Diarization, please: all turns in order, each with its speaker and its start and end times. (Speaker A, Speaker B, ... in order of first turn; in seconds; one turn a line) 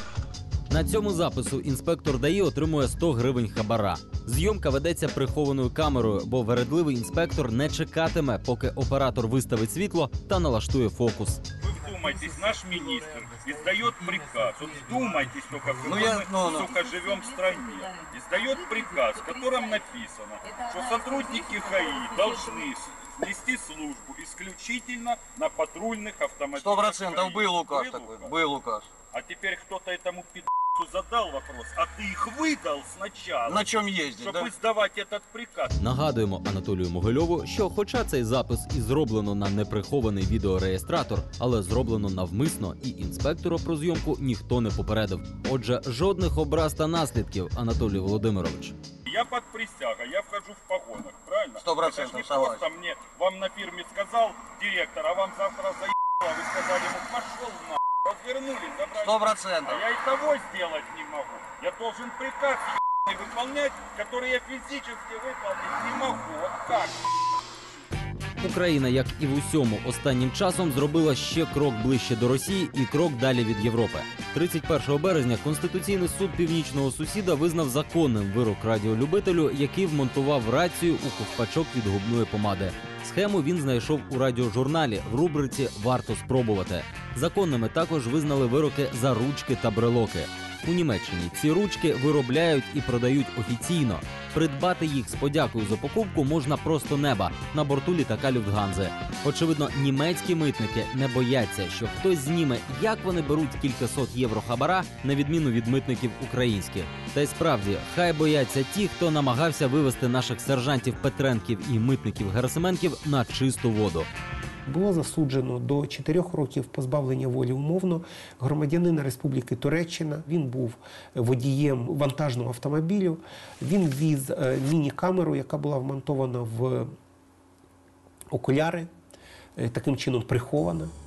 Speaker A: 0.7-11.4
Speaker B: 11.6-28.3
Speaker C: 15.8-16.7
Speaker C: 26.6-28.9
Speaker B: 29.1-35.7
Speaker C: 33.5-34.5
Speaker A: 35.8-48.7
Speaker B: 49.0-67.0
Speaker C: 51.6-52.7
Speaker C: 58.8-59.9
Speaker A: 68.4-114.1
Speaker D: 114.7-126.9
Speaker D: 128.3-128.9
Speaker D: 129.6-130.9